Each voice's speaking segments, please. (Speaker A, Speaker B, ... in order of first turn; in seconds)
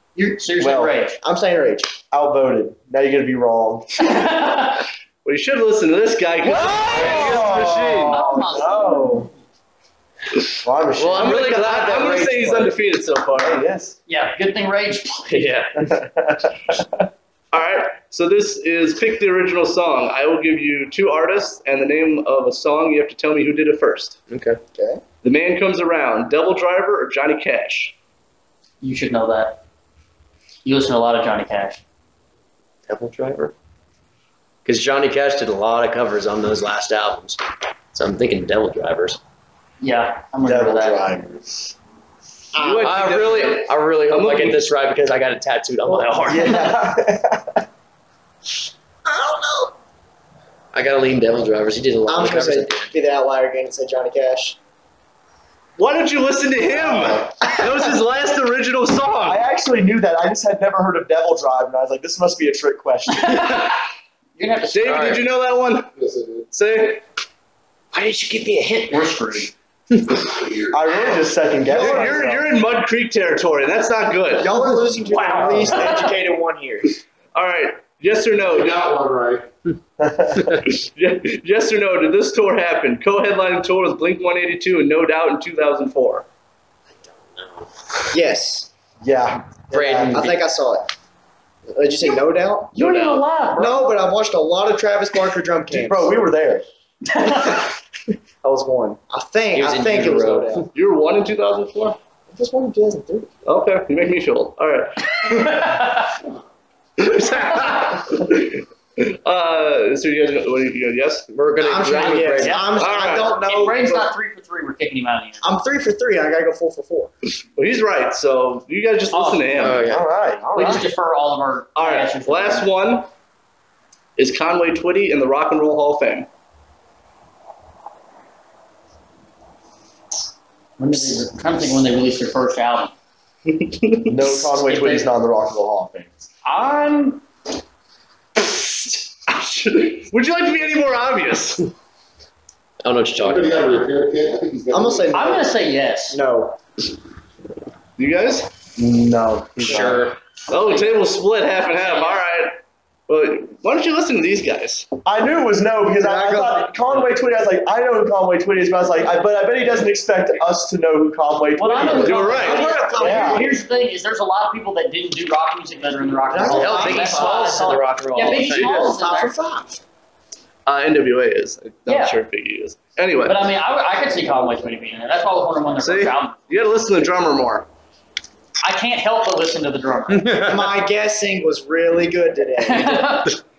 Speaker A: 0.1-1.2, 4.0-4.8, 8.1-9.3, 14.1-15.5, 28.8-29.6, 30.6-31.8, 39.8-41.1, 63.1-63.8, 64.3-65.2, 68.9-69.5, 75.0-76.1, 92.7-93.9, 97.1-97.6, 105.3-105.9, 111.9-112.8, 113.3-115.5, 119.1-119.7, 120.5-122.7, 130.8-132.9, 134.2-135.1, 136.4-137.2, 145.1-146.2, 150.6-151.0, 151.7-152.2, 161.6-169.3, 171.8-172.2, 173.2-176.5, 178.6-180.4, 182.6-183.4
Speaker B: 0.6-1.0, 2.1-4.3, 6.7-9.3, 10.6-11.5, 13.4-13.9, 15.8-17.0, 40.5-41.7, 46.1-47.6, 56.6-57.3, 59.2-63.7, 70.7-72.5, 74.5-75.8, 80.0-80.5, 89.0-90.2, 95.7-96.6, 119.8-120.8, 134.1-136.2, 148.8-150.1, 155.0-162.4, 163.0-163.6
Speaker C: 1.2-2.0, 24.7-25.0, 42.5-43.2, 49.0-49.7, 52.0-54.6, 71.7-72.2, 74.4-77.0, 88.1-88.7, 89.7-90.9, 91.7-92.7, 93.5-96.1, 98.4-100.7, 102.3-103.3, 111.6-114.1, 115.4-117.1, 144.7-145.5, 146.1-146.6, 156.0-156.6, 162.3-163.6, 166.3-167.6, 168.4-169.8, 180.4-183.1
Speaker D: 5.2-7.2, 11.1-13.7, 17.5-24.2, 25.2-27.9, 42.6-44.7, 55.8-59.4, 64.7-65.9, 66.5-67.0, 71.7-74.5, 77.3-78.9, 80.6-86.2, 100.7-102.0, 103.4-105.7, 107.0-111.3, 112.8-113.4, 117.4-119.8, 121.7-123.1, 124.2-126.3, 133.6-134.1, 139.3-141.7, 148.0-148.5, 150.5-154.9, 162.0-163.1, 170.7-173.4, 175.8-177.7
Speaker E: 6.9-8.2, 10.9-12.7, 15.3-15.9, 24.3-24.6, 32.9-33.5, 34.6-37.4, 37.9-39.2, 42.8-46.7, 50.7-52.9, 64.9-65.2, 67.9-69.0, 87.3-87.7, 89.7-90.4, 92.7-93.2, 99.5-100.7, 111.3-112.7, 119.6-120.1, 142.8-143.9, 149.6-150.2, 166.5-168.9, 180.1-180.5
Speaker F: 66.0-66.4, 78.5-79.5, 143.2-145.2